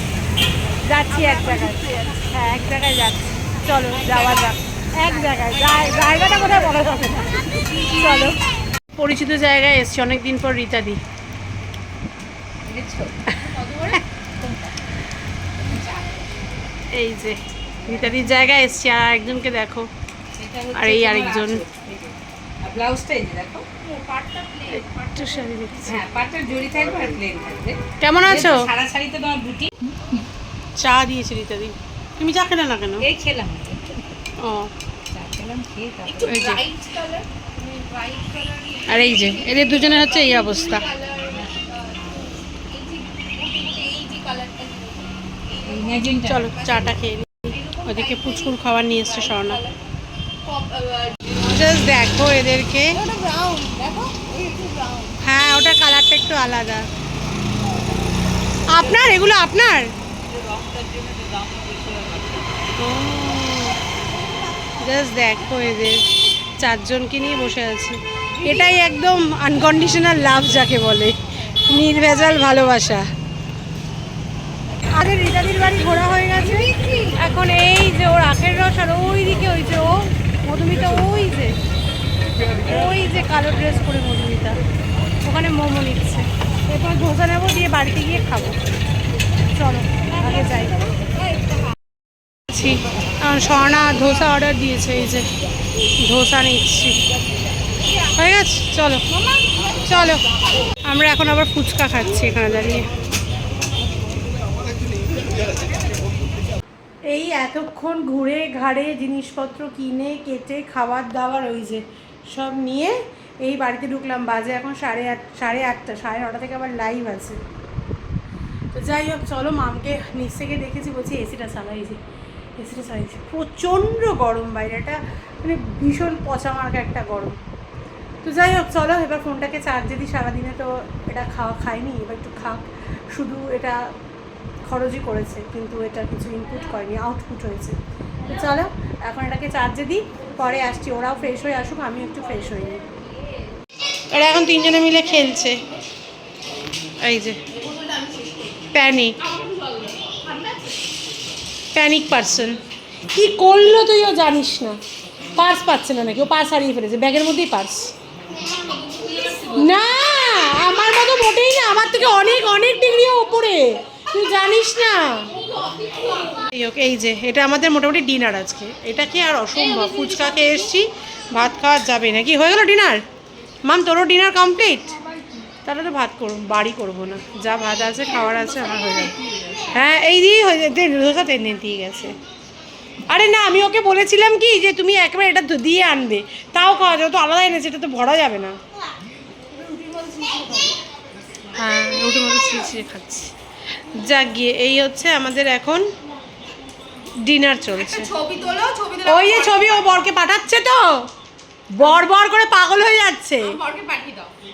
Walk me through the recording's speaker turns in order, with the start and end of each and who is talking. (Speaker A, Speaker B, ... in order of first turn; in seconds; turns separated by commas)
Speaker A: 0.8-8.4, Speaker B: 1.1-2.2, Speaker B: 4.0-4.5, Speaker B: 5.0-6.6, Speaker B: 7.7-8.0, Speaker A: 8.9-11.0, Speaker C: 12.6-14.7, Speaker C: 15.6-16.5, Speaker A: 16.9-19.9, Speaker C: 17.8-18.7, Speaker C: 20.3-23.7, Speaker A: 20.7-21.6, Speaker B: 23.8-25.9, Speaker A: 24.7-26.0, Speaker C: 25.9-30.2, Speaker A: 28.0-28.6, Speaker A: 30.8-33.0, Speaker C: 33.0-34.0, Speaker A: 34.4-34.7, Speaker C: 35.1-36.5, Speaker B: 36.0-46.9, Speaker A: 36.3-36.6, Speaker A: 38.9-40.9, Speaker C: 45.6-46.5, Speaker A: 46.3-49.6, Speaker B: 47.5-49.8, Speaker B: 50.4-51.4, Speaker A: 51.4-53.0, Speaker B: 53.0-55.2, Speaker A: 55.2-56.8, Speaker A: 58.7-59.9, Speaker C: 60.3-62.4, Speaker A: 62.8-63.8, Speaker A: 64.8-66.0, Speaker A: 66.6-73.1, Speaker A: 74.9-81.5, Speaker B: 75.9-77.2, Speaker A: 82.6-84.6, Speaker A: 85.2-88.6, Speaker A: 89.5-90.9, Speaker B: 90.2-90.7, Speaker A: 92.5-95.3, Speaker A: 96.0-97.0, Speaker A: 98.0-99.0, Speaker B: 99.1-100.3, Speaker A: 99.7-100.2, Speaker A: 100.8-102.9, Speaker A: 107.1-117.4, Speaker A: 118.7-122.0, Speaker A: 122.6-127.4, Speaker A: 128.2-133.8, Speaker A: 134.6-142.8, Speaker B: 138.2-138.5, Speaker B: 140.3-141.0, Speaker A: 144.1-145.6, Speaker A: 147.0-147.4, Speaker B: 147.5-148.7, Speaker A: 148.7-149.2, Speaker B: 149.2-150.8, Speaker A: 151.7-152.6, Speaker A: 153.1-157.9, Speaker B: 158.4-159.8, Speaker A: 159.5-165.3, Speaker B: 165.2-166.5, Speaker A: 166.5-173.0, Speaker B: 169.6-170.6, Speaker A: 173.6-174.9, Speaker A: 175.6-179.1, Speaker B: 178.2-179.7, Speaker A: 179.7-182.2, Speaker A: 183.1-188.6, Speaker B: 189.6-190.8, Speaker A: 191.5-195.8, Speaker A: 197.2-198.1, Speaker B: 197.8-200.0, Speaker A: 199.0-200.8, Speaker A: 201.7-203.6, Speaker B: 203.4-204.3